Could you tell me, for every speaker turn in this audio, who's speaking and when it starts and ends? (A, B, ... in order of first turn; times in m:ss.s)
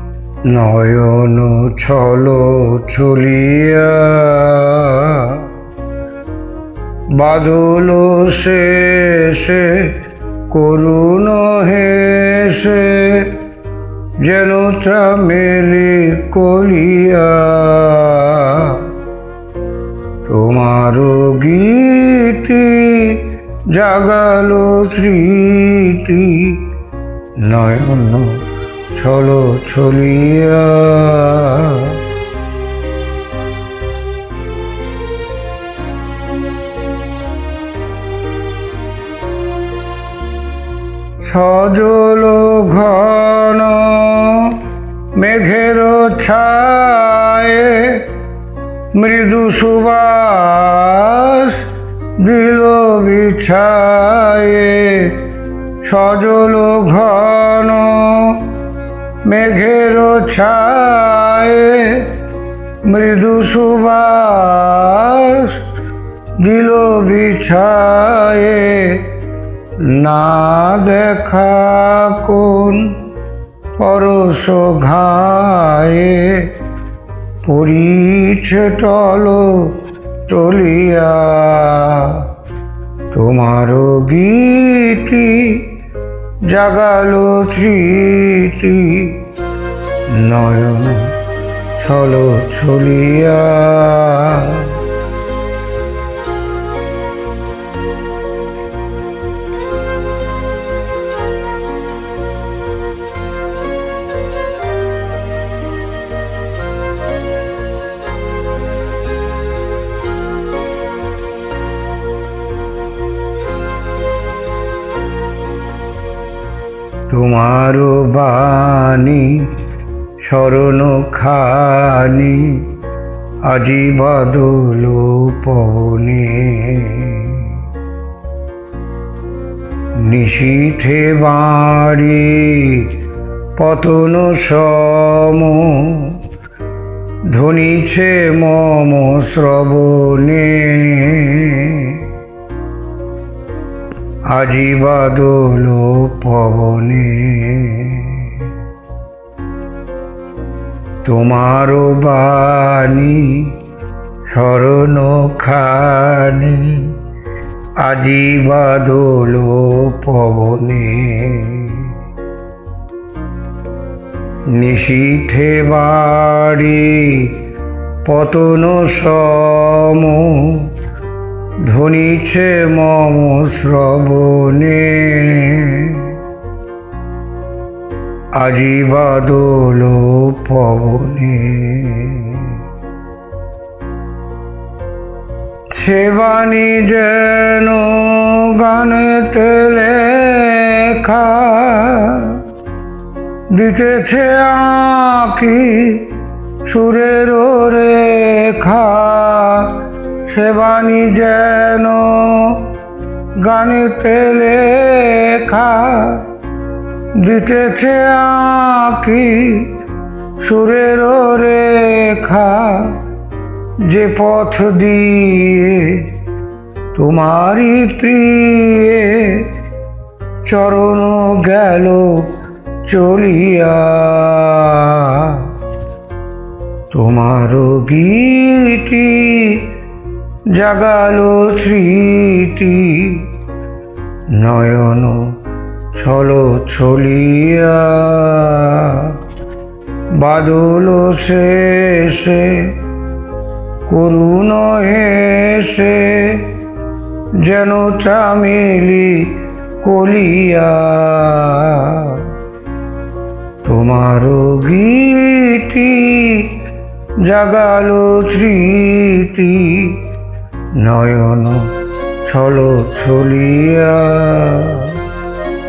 0:00.4-0:05.5 A
0:07.1-0:09.9 A
0:10.5-0:13.3 A
0:14.2-0:18.9 A
0:20.2-0:26.6 A
0:27.4-0:28.4 A
0:28.9-0:32.0 A
0:41.2-0:44.6 A
0:45.1-0:48.1 A
0:48.9-0:51.6 A
0:52.2-0:55.2 A
0:55.8-0:58.4 A
0:59.2-1:02.1 A
1:02.8-1:05.6 A
1:06.4-1:09.0 A
1:09.8-1:12.9 A
1:13.8-1:16.5 A
1:17.4-1:19.8 A
1:20.3-1:22.3 A
1:23.1-1:25.7 A
1:26.4-1:29.2 A
1:30.1-1:31.2 A
1:31.8-1:34.8 A
1:57.1-1:59.5 A
2:00.2-2:02.7 A
2:03.4-2:07.6 A
2:10.0-2:12.9 A
2:13.6-2:16.2 A
2:17.3-2:22.1 A
2:24.3-2:28.5 A
2:31.0-2:33.6 A
2:34.3-2:37.0 A
2:37.8-2:41.9 A
2:44.5-2:47.4 A
2:48.0-2:50.7 A
2:51.6-2:56.2 A
2:58.3-3:02.6 A
3:05.7-3:12.4 A
3:13.5-3:16.1 A
3:16.6-3:22.6 A
3:23.4-3:26.2 A
3:27.2-3:29.7 A
3:30.4-3:33.0 A
3:33.8-3:36.1 A
3:36.9-3:39.5 A
3:40.4-3:42.3 A
3:42.8-3:45.5 A
3:46.9-3:49.7 A
3:50.5-3:53.3 A
3:54.3-3:55.4 A
3:55.9-3:59.2 A
4:00.1-4:02.7 A
4:03.9-4:06.5 A
4:07.4-4:12.3 A
4:13.6-4:16.5 A
4:17.2-4:20.0 A
4:20.8-4:21.7 A
4:22.2-4:25.0 A